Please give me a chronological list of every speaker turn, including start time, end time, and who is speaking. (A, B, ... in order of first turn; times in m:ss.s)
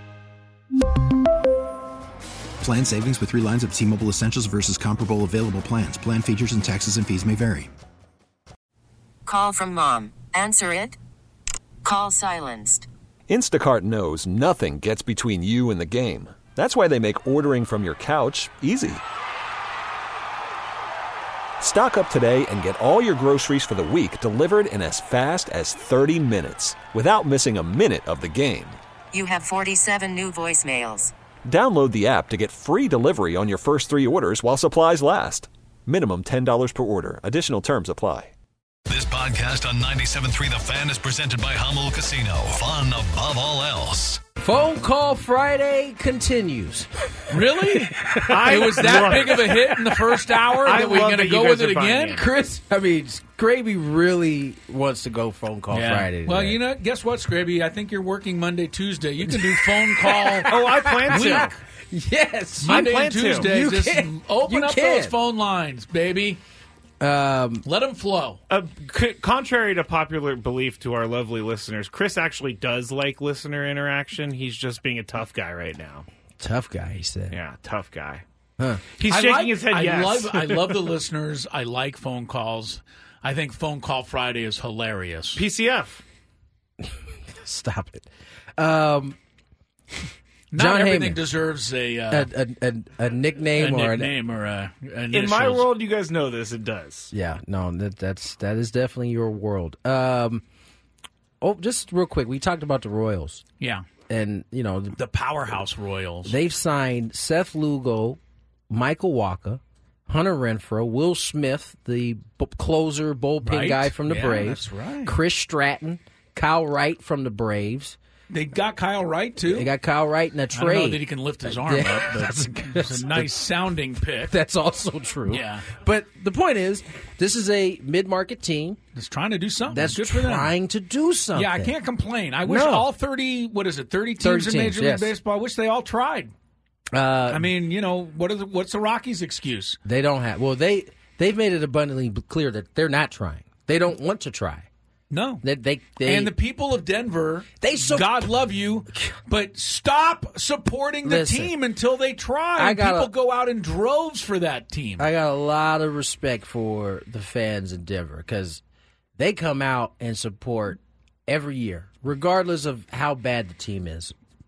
0:02.6-0:07.7 A
0:09.3-0:10.9 B
0:11.8-0:12.8 B
0:13.3-0:19.0 C
0:21.6-0:28.8 C
0:29.1-0:31.1 B
0:31.4-0:38.3 C
0:38.9-0:44.2 D
0:44.4-0:47.4 E
0:47.3-0:52.2 F
0:48.1-0:49.6 E
0:48.2-0:49.6 G
0:50.6-0:52.2 G
0:52.1-0:56.6 E
0:55.7-1:00.5 F
0:59.3-1:05.1 E
1:00.4-1:01.6 G
1:01.1-1:01.5 F
1:02.6-1:06.4 F
1:02.6-1:03.5 G
1:07.0-1:07.6 E
1:07.6-1:08.4 F
1:08.5-1:16.1 G
1:16.4-1:17.4 E
1:17.3-1:18.2 G
1:19.0-1:20.8 G
1:19.0-1:25.4 F
1:25.3-1:26.0 G
1:26.8-1:29.2 E
1:30.5-1:32.3 F
1:30.5-1:31.2 E
1:32.1-1:34.1 E
1:33.6-1:35.7 F
1:35.1-1:37.1 G
1:37.1-1:40.4 E
1:41.4-1:43.4 E
1:44.1-1:45.0 E
1:45.0-1:46.3 F
1:46.2-1:48.2 E
1:48.7-1:58.0 E
1:53.4-1:55.1 F
1:58.3-1:59.7 F
1:59.4-2:03.3 E
2:00.5-2:04.3 F
2:04.3-2:08.8 E
2:05.3-2:05.7 F
2:08.9-2:10.5 F
2:09.7-2:11.7 E
2:11.3-2:16.3 F
2:12.4-2:12.9 E
2:14.2-2:15.1 E
2:16.9-2:17.5 E
2:17.3-2:19.8 F
2:19.8-2:24.7 E
2:25.1-2:25.4 F
2:25.4-2:26.3 E
2:26.0-2:35.1 F
2:27.6-2:28.2 E
2:31.0-2:31.5 E
2:32.6-2:33.1 E
2:35.0-2:38.6 E
2:39.2-2:44.1 E